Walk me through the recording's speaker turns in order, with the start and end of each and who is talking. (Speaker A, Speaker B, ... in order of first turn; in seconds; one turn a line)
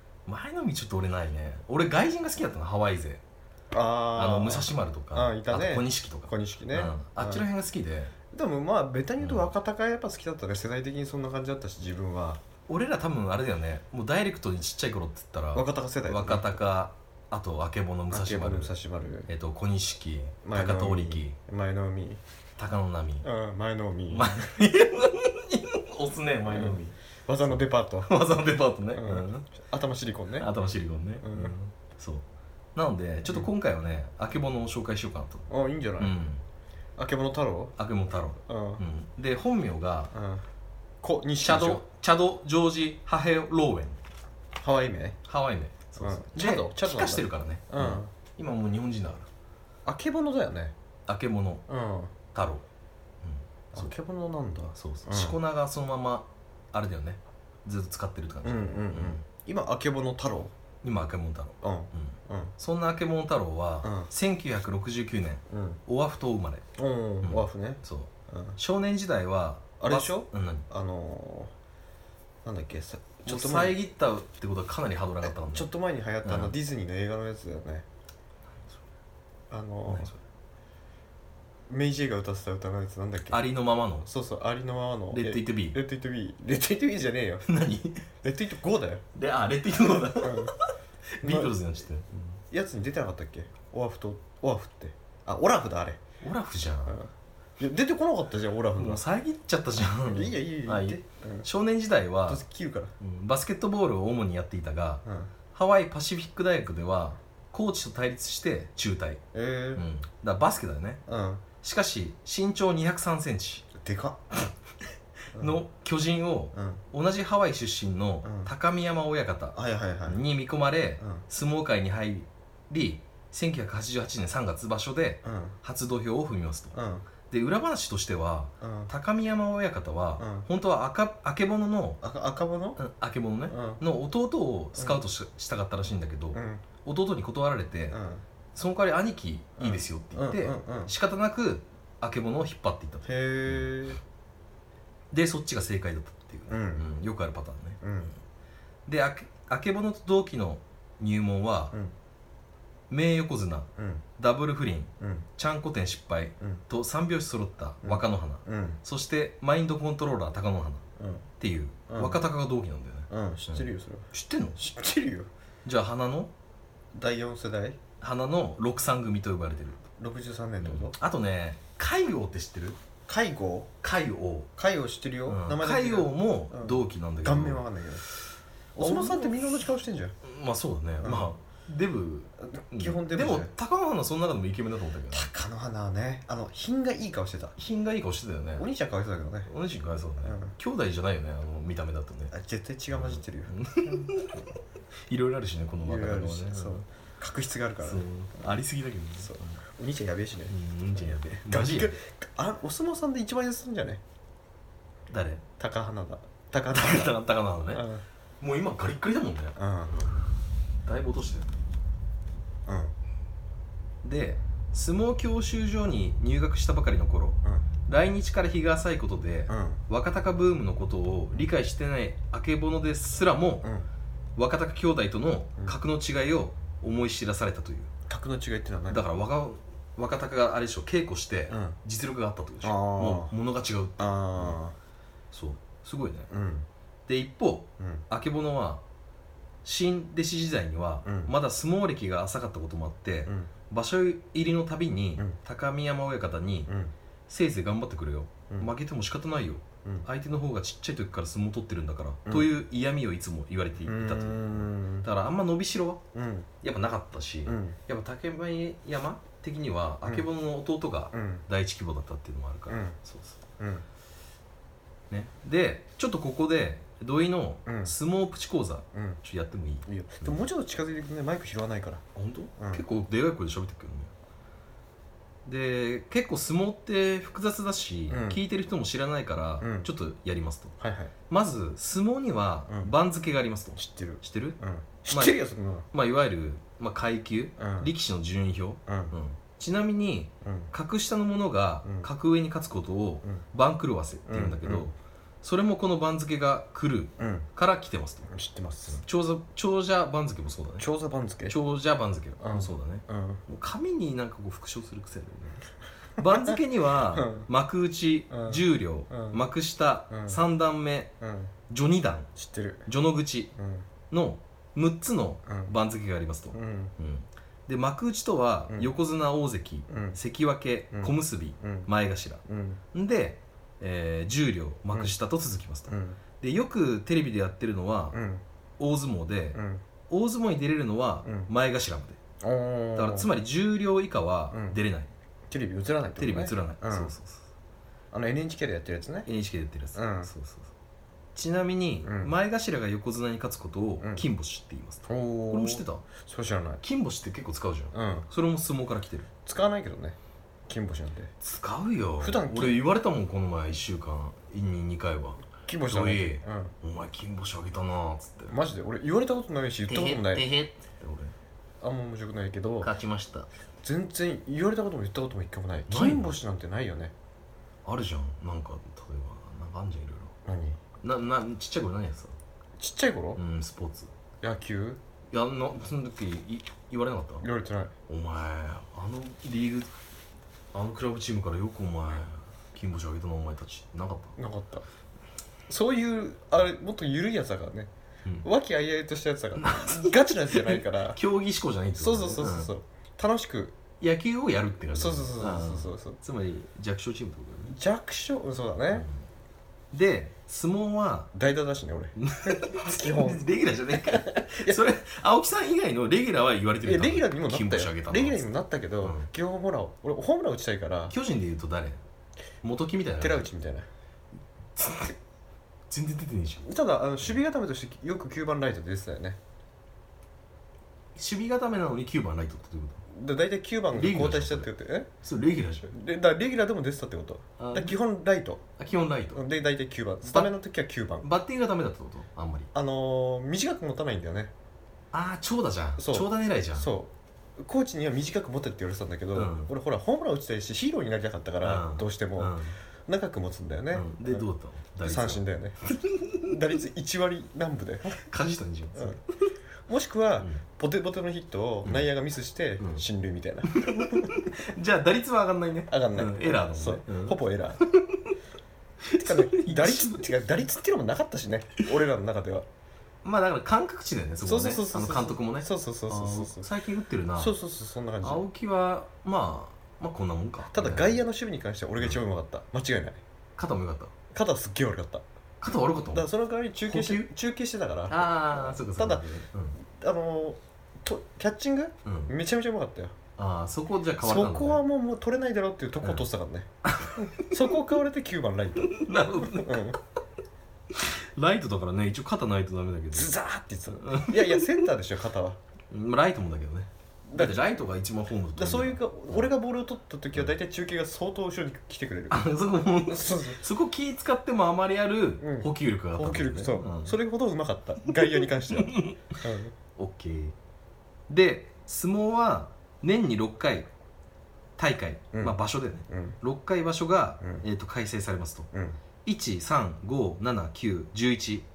Speaker A: 0.3-3.2
Speaker B: 3.7-7.5
Speaker A: 4.1-8.1
Speaker B: 8.3-12.4
Speaker A: 9.2-9.5
Speaker A: 12.7-18.7
Speaker B: 15.5-16.5
Speaker B: 18.1-19.3
Speaker A: 19.3-21.4
Speaker B: 20.4-22.2
Speaker A: 22.6-23.3
Speaker B: 23.2-24.4
Speaker A: 24.1-29.5
Speaker B: 26.5-28.1
Speaker B: 28.9-30.5
Speaker A: 30.4-35.5
Speaker B: 31.2-31.5
Speaker B: 35.5-36.1
Speaker A: 36.0-36.4
Speaker B: 37.0-37.7
Speaker A: 37.8-40.1
Speaker B: 38.5-38.8
Speaker B: 40.1-40.4
Speaker B: 41.0-41.8
Speaker A: 41.4-44.0
Speaker B: 44.6-45.2
Speaker A: 45.2-49.3
Speaker B: 46.0-48.1
Speaker B: 49.8-50.7
Speaker A: 51.1-51.6
Speaker B: 51.7-52.1
Speaker A: 52.3-52.6
Speaker A: 53.2-53.9
Speaker B: 53.7-55.4
Speaker A: 54.7-59.2
Speaker B: 58.4-60.5
Speaker A: 60.8-66.6
Speaker B: 61.6-62.5
Speaker B: 63.8-64.1
Speaker B: 65.5-65.8
Speaker B: 66.8-68.6
Speaker A: 67.2-70.6
Speaker B: 69.8-71.5
Speaker B: 72.4-73.8
Speaker A: 73.2-75.7
Speaker B: 75.2-77.8
Speaker A: 76.2-76.5
Speaker B: 79.5-80.1
Speaker A: 79.9-80.2
Speaker B: 81.7-83.4
Speaker A: 83.3-84.1
Speaker B: 84.0-87.5
Speaker A: 85.1-85.8
Speaker A: 87.4-88.0
Speaker B: 88.2-89.0
Speaker A: 89.1-92.3
Speaker B: 90.2-90.5
Speaker B: 91.2-91.5
Speaker B: 92.5-96.0
Speaker A: 96.2-97.0
Speaker B: 96.9-99.0
Speaker A: 98.8-102.4
Speaker B: 100.0-101.5
Speaker B: 102.3-102.9
Speaker A: 103.0-109.2
Speaker B: 105.0-105.3
Speaker B: 109.3-109.8
Speaker A: 109.7-111.0
Speaker B: 111.1-111.4
Speaker A: 111.6-113.7
Speaker B: 113.8-114.3
Speaker A: 115.3-126.8
Speaker B: 116.5-116.8
Speaker B: 118.2-118.5
Speaker B: 119.5-120.2
Speaker B: 125.2-125.5
Speaker B: 126.7-127.0
Speaker A: 127.3-132.0
Speaker B: 128.6-128.9
Speaker B: 130.2-130.5
Speaker B: 132.0-132.8
Speaker A: 132.8-138.0
Speaker B: 133.5-133.8
Speaker B: 136.3-136.6
Speaker B: 137.9-138.2
Speaker A: 138.5-143.7
Speaker B: 139.6-140.9
Speaker B: 143.0-144.0
Speaker A: 145.1-147.8
Speaker B: 146.5-146.8
Speaker B: 147.8-148.1
Speaker A: 148.9-151.8
Speaker A: 152.9-160.8
Speaker B: 153.8-154.0
Speaker B: 155.0-155.2
Speaker B: 157.8-158.8
Speaker B: 161.0-161.3
Speaker A: 161.4-164.6
Speaker B: 161.9-162.2
Speaker B: 163.1-165.3
Speaker A: 165.6-166.3
Speaker B: 166.9-167.8
Speaker A: 168.0-169.8
Speaker B: 170.0-170.9
Speaker A: 170.6-172.8
Speaker B: 173.1-173.7
Speaker A: 173.8-174.5
Speaker B: 174.6-178.0
Speaker A: 175.3-177.6
Speaker B: 178.7-180.1
Speaker A: 178.8-179.4
Speaker A: 180.2-185.3
Speaker B: 181.0-181.3
Speaker B: 182.4-183.5
Speaker B: 185.1-187.5
Speaker A: 187.6-188.7
Speaker B: 188.6-189.5
Speaker A: 189.5-192.3
Speaker B: 190.2-190.5
Speaker B: 192.3-194.5
Speaker A: 192.9-194.6
Speaker A: 195.1-196.8
Speaker B: 195.8-198.0
Speaker A: 197.8-199.6
Speaker B: 199.2-204.0
Speaker A: 200.5-202.0
Speaker A: 205.1-205.4
Speaker B: 205.6-207.1
Speaker A: 206.7-207.9
Speaker B: 207.7-208.0
Speaker A: 208.4-210.2
Speaker B: 209.6-209.9
Speaker A: 210.8-211.5
Speaker B: 212.7-212.9
Speaker A: 214.0-223.7
Speaker B: 219.5-219.8
Speaker A: 224.3-227.9
Speaker B: 228.1-229.0
Speaker A: 228.9-234.6
Speaker B: 231.5-231.8
Speaker B: 232.6-233.3
Speaker B: 234.0-234.8
Speaker A: 235.3-236.3
Speaker B: 236.3-236.7
Speaker A: 237.1-238.8
Speaker B: 237.8-238.0
Speaker A: 239.6-246.7
Speaker B: 241.0-241.3
Speaker B: 246.7-246.9
Speaker A: 247.3-256.0
Speaker B: 253.8-255.1
Speaker B: 256.1-256.5
Speaker A: 256.6-263.4
Speaker B: 257.4-257.8
Speaker B: 261.1-261.4
Speaker B: 262.7-263.0
Speaker B: 263.6-263.9
Speaker A: 265.1-270.4
Speaker B: 267.6-267.9
Speaker B: 268.9-269.2
Speaker B: 269.9-272.0
Speaker A: 272.1-274.1
Speaker B: 272.6-272.8
Speaker A: 275.4-280.7
Speaker B: 278.1-278.4
Speaker B: 279.6-279.9
Speaker B: 280.8-281.1
Speaker A: 281.3-284.6
Speaker B: 283.8-285.9
Speaker A: 285.1-285.4
Speaker A: 285.9-298.3
Speaker B: 287.6-287.9
Speaker B: 288.9-289.1
Speaker B: 290.4-290.7
Speaker B: 294.3-294.9
Speaker B: 297.2-297.5
Speaker B: 298.3-299.0
Speaker A: 298.9-300.9
Speaker B: 300.8-301.6
Speaker A: 301.5-305.6
Speaker B: 302.4-303.4
Speaker A: 306.2-311.1
Speaker B: 307.1-307.4
Speaker B: 308.3-309.4
Speaker B: 310.1-310.4
Speaker B: 311.2-311.5
Speaker A: 311.7-312.3
Speaker B: 312.4-312.9
Speaker A: 312.9-313.5
Speaker B: 313.6-313.9
Speaker A: 314.1-328.2
Speaker B: 315.5-315.7
Speaker B: 316.5-316.9
Speaker B: 319.9-320.2
Speaker B: 320.9-321.9
Speaker B: 322.4-322.8
Speaker B: 325.9-326.2
Speaker B: 328.1-328.4
Speaker A: 328.8-332.2
Speaker B: 329.5-329.8
Speaker B: 331.2-331.5
Speaker B: 332.4-333.3
Speaker A: 332.9-335.1
Speaker B: 334.5-334.8
Speaker B: 335.5-337.1
Speaker A: 336.2-337.5
Speaker B: 338.1-339.3
Speaker A: 339.2-340.7
Speaker B: 339.9-340.3
Speaker A: 341.3-346.1
Speaker B: 342.0-342.3
Speaker B: 345.1-346.8
Speaker A: 346.8-349.3
Speaker B: 347.9-348.3
Speaker B: 349.4-350.2
Speaker B: 350.7-351.3
Speaker A: 351.4-358.6
Speaker B: 352.2-352.8
Speaker B: 355.6-356.7
Speaker B: 358.5-360.5
Speaker A: 359.9-361.3
Speaker B: 361.8-362.9
Speaker A: 362.8-363.5
Speaker B: 363.8-367.1
Speaker A: 365.9-366.3
Speaker A: 367.8-370.3
Speaker B: 370.4-370.8
Speaker A: 371.0-372.4
Speaker B: 372.8-373.4
Speaker A: 373.4-374.1
Speaker B: 374.4-375.0
Speaker A: 375.3-377.4
Speaker B: 377.4-377.9
Speaker A: 378.1-379.9
Speaker A: 380.7-384.4
Speaker B: 384.4-384.8
Speaker B: 385.7-387.9
Speaker B: 388.4-391.2
Speaker A: 389.6-392.7
Speaker B: 391.9-393.8
Speaker A: 394.0-397.8
Speaker B: 394.9-396.2
Speaker B: 397.7-399.1
Speaker A: 398.9-399.2
Speaker A: 399.9-401.3
Speaker B: 401.3-404.8
Speaker A: 402.2-408.4
Speaker B: 406.8-411.1
Speaker A: 409.0-409.3
Speaker A: 411.1-412.0
Speaker A: 412.6-413.5
Speaker B: 413.2-413.9
Speaker A: 414.8-415.2
Speaker A: 415.9-416.7
Speaker B: 416.6-419.4
Speaker A: 421.1-423.0
Speaker B: 423.1-425.1
Speaker A: 423.9-424.7
Speaker A: 425.2-425.9
Speaker B: 425.9-428.6
Speaker A: 427.6-428.0
Speaker A: 428.8-429.4
Speaker B: 429.3-431.3
Speaker A: 431.2-432.7
Speaker B: 432.7-434.5
Speaker A: 435.1-436.9
Speaker B: 436.0-444.5
Speaker A: 439.3-439.7
Speaker A: 441.6-442.8
Speaker A: 443.9-446.5
Speaker B: 445.0-445.8
Speaker B: 446.4-448.2
Speaker A: 448.2-449.2
Speaker B: 449.9-454.3
Speaker A: 453.7-458.3
Speaker B: 455.9-457.8
Speaker A: 459.0-460.2
Speaker B: 459.1-462.7
Speaker A: 463.2-467.5
Speaker B: 464.4-466.7
Speaker B: 467.4-468.4
Speaker A: 468.2-471.2
Speaker B: 470.7-473.2
Speaker A: 473.6-474.1
Speaker B: 474.3-475.2
Speaker A: 475.6-476.3
Speaker B: 476.1-483.1
Speaker A: 476.9-477.3
Speaker A: 478.1-479.8
Speaker A: 482.0-482.3
Speaker A: 483.4-484.8
Speaker B: 484.2-490.0
Speaker A: 486.8-487.5
Speaker A: 488.8-490.0
Speaker A: 490.9-493.3
Speaker B: 493.1-495.6
Speaker A: 493.9-494.9
Speaker A: 495.9-499.5
Speaker B: 497.3-497.8
Speaker B: 498.6-502.4
Speaker A: 502.3-507.2
Speaker B: 503.1-503.6
Speaker B: 505.4-509.7
Speaker A: 508.2-509.4
Speaker A: 510.0-510.5
Speaker A: 511.3-513.9
Speaker A: 514.8-518.7
Speaker B: 516.1-516.4
Speaker B: 518.7-519.0
Speaker A: 519.2-521.7